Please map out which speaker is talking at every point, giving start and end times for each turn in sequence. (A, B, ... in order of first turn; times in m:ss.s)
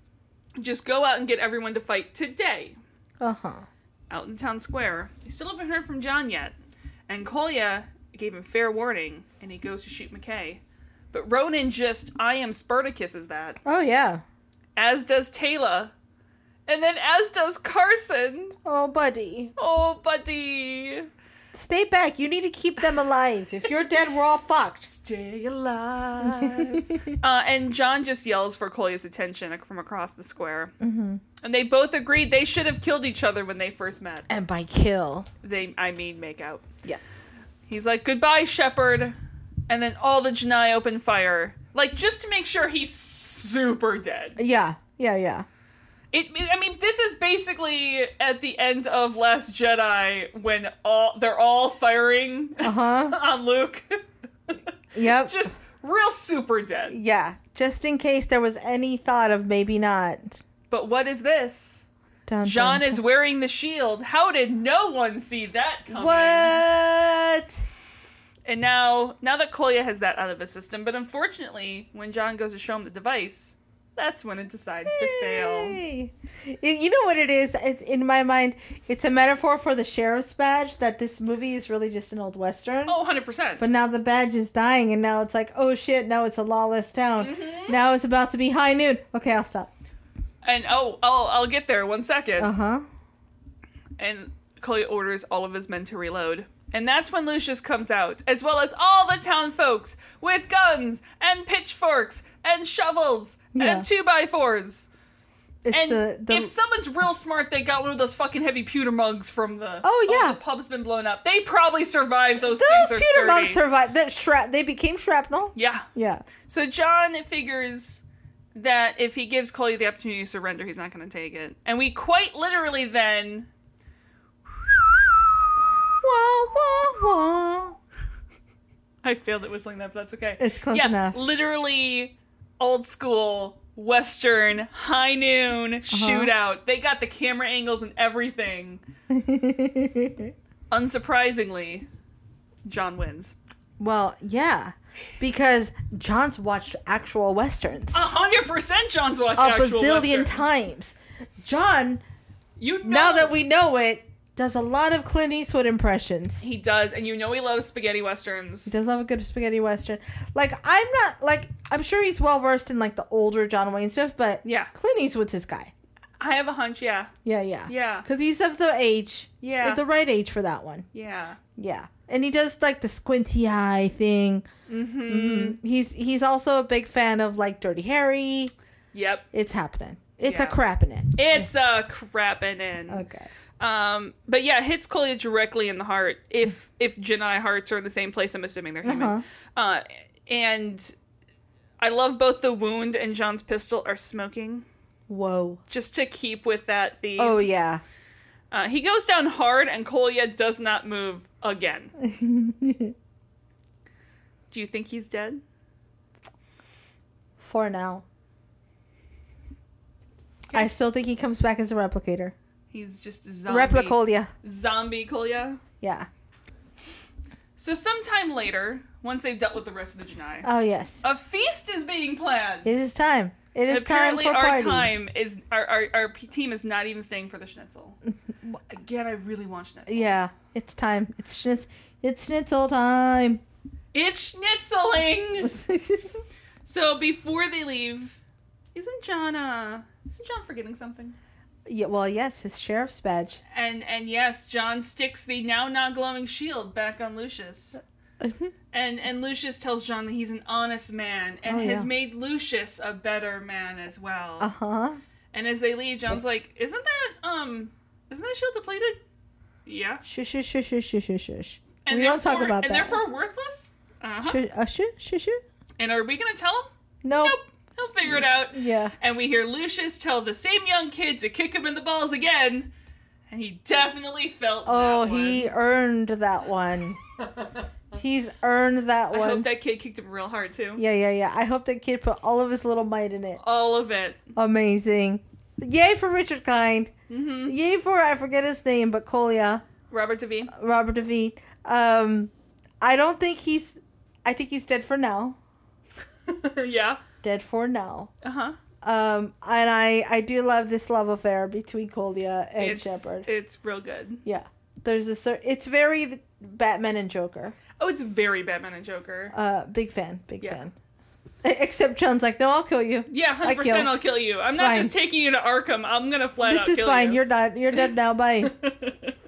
0:00.6-0:02.8 A
0:03.2-0:03.6 B
0:04.1-0:06.5 A
0:07.1-0:10.6 A
0:11.1-0:13.6 A
0:13.6-0:14.2 B
0:14.8-0:15.9 A
0:16.7-0:18.6 A
0:18.6-0:19.5 B
0:19.6-0:21.1 A
0:21.5-0:24.9 B
0:24.9-0:30.7 A
0:26.2-0:27.2 B
0:30.8-0:31.2 B
0:31.4-0:34.3 A
0:34.3-0:35.3 B
0:35.4-0:36.6 A
0:37.7-0:39.2 A
0:39.7-0:44.4 A
0:44.4-0:45.4 B
0:46.1-0:57.0 A
0:52.6-0:53.2 B
0:54.9-0:55.5 B
0:56.9-1:00.4 B
1:00.7-1:01.8 A
1:02.3-1:03.0 B
1:02.4-1:06.6 A
1:05.9-1:07.6 B
1:08.4-1:15.8 A
1:14.9-1:23.0 B
1:22.9-1:23.6 A
1:23.6-1:29.7 B
1:27.2-1:27.8 A
1:30.4-1:32.5 A
1:32.4-1:32.8 B
1:34.0-1:44.9 A
1:43.5-1:43.9 B
1:45.6-1:46.5 B
1:45.7-1:53.6 A
1:49.8-1:50.4 B
1:52.4-1:56.2 B
1:55.6-1:55.9 A
1:56.4-1:58.0 A
1:58.5-2:03.5 A
2:06.0-2:07.8 B
2:09.0-2:18.8 A
2:10.4-2:11.2 B
2:15.9-2:16.3 B
2:19.1-2:20.3 B
2:20.7-2:21.9 A
2:22.6-2:23.4 A
2:23.8-2:28.1 B
2:27.9-2:30.5 A
2:29.4-2:32.0 B
2:32.6-2:33.4 A
2:32.8-2:36.4 B
2:36.4-2:38.7 A
2:38.6-2:45.7 B
2:44.4-2:44.7 A
2:46.2-2:47.1 A
2:47.2-2:50.9 B
2:47.7-2:48.1 A
2:49.4-2:49.8 A
2:50.9-2:51.4 A
2:51.6-2:54.5 B
2:54.7-2:55.6 A
2:55.0-2:58.5 B
2:58.9-2:59.3 A
2:59.3-3:01.5 B
3:00.2-3:00.6 A
3:01.2-3:03.0 A
3:02.9-3:03.3 B
3:03.6-3:10.9 A
3:08.8-3:09.2 B
3:11.8-3:14.6 A
3:15.1-3:15.6 B
3:15.7-3:17.5 A
3:17.2-3:17.8 B
3:18.5-3:21.9 A
3:22.0-3:22.9 B
3:24.5-3:25.4 A
3:27.4-3:28.0 B
3:30.5-3:32.3 B
3:32.7-3:35.6 A
3:33.5-3:34.3 B
3:35.8-3:36.1 B
3:37.6-3:40.5 A
3:40.4-3:41.0 B
3:41.0-3:42.7 A
3:42.6-3:44.9 B
3:43.7-3:48.0 A
3:48.7-3:50.2 A
3:49.9-3:53.4 B
3:53.9-3:55.6 A
3:55.4-3:56.2 B
3:56.6-3:58.1 A
3:58.7-4:01.1 A
4:01.7-4:03.4 B
4:03.5-4:07.8 A
4:08.2-4:08.5 B
4:08.7-4:14.5 A
4:11.4-4:11.9 B
4:14.4-4:15.0 B
4:15.3-4:19.0 A
4:19.6-4:20.0 A
4:20.0-4:23.0 B
4:21.8-4:24.4 A
4:24.2-4:25.4 B
4:25.8-4:32.7 A
4:27.0-4:27.4 B
4:28.0-4:28.9 B
4:33.3-4:35.5 A
4:34.6-4:37.0 B
4:37.9-4:39.5 B
4:39.1-4:40.8 A
4:40.8-4:43.4 B
4:43.4-4:44.2 A
4:44.4-4:46.9 B
4:47.1-4:47.5 A
4:47.4-4:49.6 B
4:49.9-4:50.5 A
4:50.5-4:55.4 B
4:56.2-4:57.0 A
4:57.2-4:58.1 B
4:58.2-4:58.6 A
4:58.8-5:03.3 B
5:02.6-5:04.2 A
5:04.2-5:07.6 B
5:07.8-5:09.3 A
5:09.3-5:10.7 B
5:11.4-5:13.9 B
5:13.1-5:17.2 A
5:14.5-5:14.9 B
5:16.4-5:18.5 B
5:18.6-5:18.9 A